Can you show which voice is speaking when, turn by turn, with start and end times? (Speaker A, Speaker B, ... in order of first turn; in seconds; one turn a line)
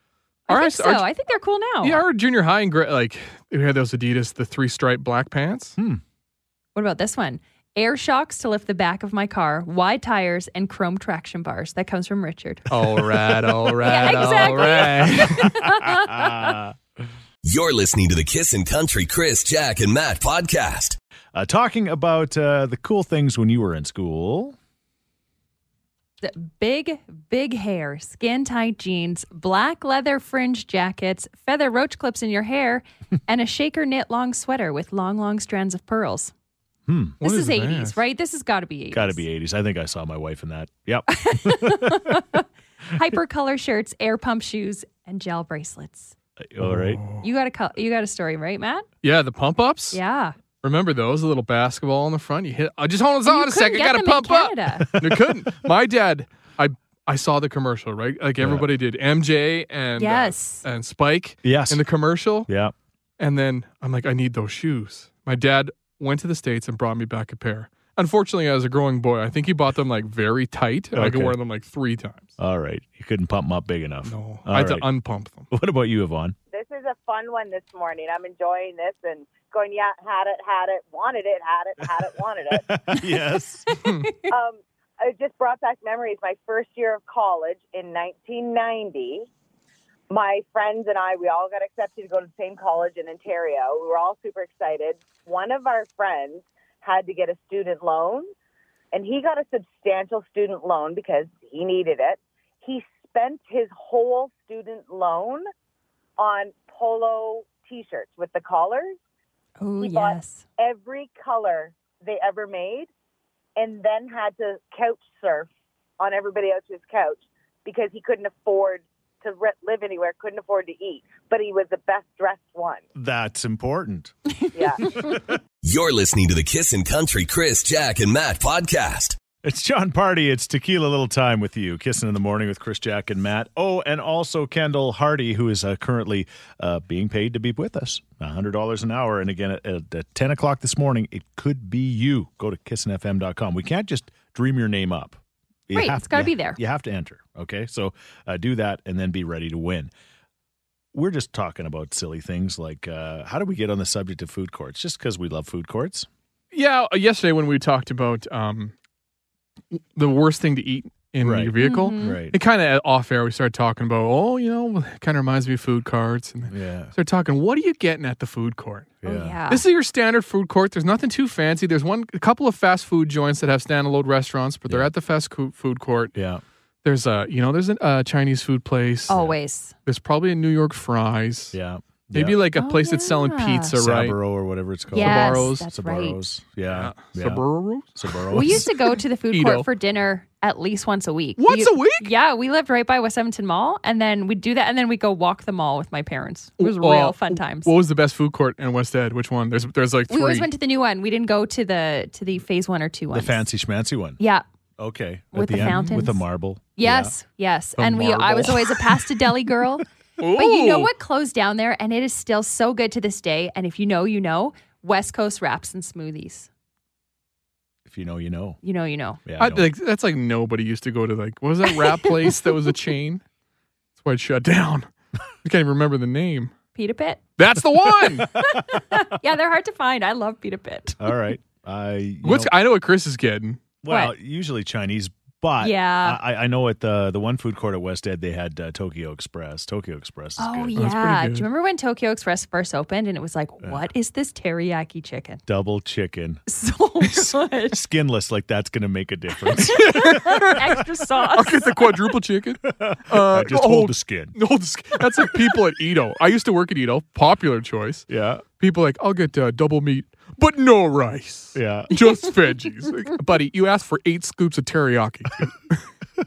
Speaker A: 0.5-1.1
Speaker B: 0.5-2.0
Speaker A: 1.8-5.8
Speaker B: 6.7-12.7
Speaker A: 12.7-15.5
Speaker B: 13.8-16.3
Speaker C: 14.0-16.8
Speaker D: 17.4-21.0
Speaker C: 21.3-24.6
Speaker B: 26.2-36.3
Speaker C: 36.9-37.2
Speaker A: 37.2-38.0
Speaker B: 37.2-39.2
Speaker C: 38.9-42.2
Speaker B: 41.1-46.1
Speaker C: 46.4-47.0
Speaker A: 46.6-47.2
Speaker B: 47.2-48.9
Speaker A: 49.0-50.0
Speaker B: 49.9-50.3
Speaker A: 50.6-62.5
Speaker B: 53.2-54.9
Speaker C: 54.9-55.4
Speaker C: 58.4-58.7
Speaker B: 60.0-60.6
Speaker C: 61.4-61.8
Speaker C: 62.5-62.7
Speaker A: 63.2-72.3
Speaker C: 70.9-71.3
Speaker C: 72.4-74.9
Speaker A: 74.0-75.5
Speaker C: 75.5-76.3
Speaker E: 76.5-82.7
Speaker C: 82.5-83.7
Speaker B: 83.7-84.3
Speaker A: 83.8-84.1
Speaker E: 84.3-89.3
Speaker E: 90.1-98.3
Speaker E: 98.9-105.4
Speaker E: 106.2-109.0
Speaker B: 109.6-110.4
Speaker E: 109.8-112.9
Speaker E: 113.6-122.8
Speaker C: 122.9-124.1
Speaker E: 124.5-124.9
Speaker C: 125.0-125.3
Speaker D: 125.6-129.2
Speaker C: 129.4-149.9
Speaker B: 145.7-146.6
Speaker C: 150.9-156.1
Speaker A: 156.5-158.7
Speaker A: 159.7-169.0
Speaker C: 161.2-162.4
Speaker B: 161.6-162.2
Speaker C: 166.5-166.9
Speaker C: 169.0-169.4
Speaker B: 169.0-169.6
Speaker A: 169.5-176.1
Speaker C: 176.1-176.4
Speaker A: 176.8-179.1
Speaker B: 179.1-179.7
Speaker C: 179.1-179.3
Speaker A: 179.8-181.6
Speaker C: 181.5-182.4
Speaker A: 182.1-184.2
Speaker B: 182.6-183.7
Speaker C: 183.7-187.4
Speaker A: 184.9-185.6
Speaker B: 184.9-186.2
Speaker A: 186.7-188.7
Speaker C: 187.9-188.7
Speaker B: 188.3-197.7
Speaker A: 189.3-189.7
Speaker A: 191.4-192.1
Speaker A: 196.6-200.5
Speaker B: 200.1-203.5
Speaker C: 203.1-204.2
Speaker B: 204.2-204.4
Speaker C: 204.8-207.1
Speaker B: 205.3-206.2
Speaker A: 205.5-206.0
Speaker B: 206.8-216.5
Speaker C: 207.8-208.8
Speaker A: 210.2-210.9
Speaker C: 217.8-218.6
Speaker B: 218.6-219.2
Speaker C: 219.2-219.7
Speaker A: 219.4-223.2
Speaker A: 224.0-224.9
Speaker A: 225.4-226.5
Speaker B: 226.7-227.2
Speaker A: 227.4-228.3
Speaker B: 228.2-231.1
Speaker C: 231.0-232.5
Speaker A: 232.2-233.6
Speaker C: 233.8-240.7
Speaker B: 233.9-234.1
Speaker B: 235.6-236.2
Speaker B: 240.4-245.4
Speaker A: 240.8-241.5
Speaker C: 245.5-246.4
Speaker B: 246.5-247.8
Speaker C: 247.6-250.1
Speaker B: 249.7-251.9
Speaker A: 249.7-258.1
Speaker C: 252.7-254.4
Speaker C: 255.0-255.6
Speaker C: 258.1-258.4
Speaker A: 258.6-265.8
Speaker C: 261.5-261.9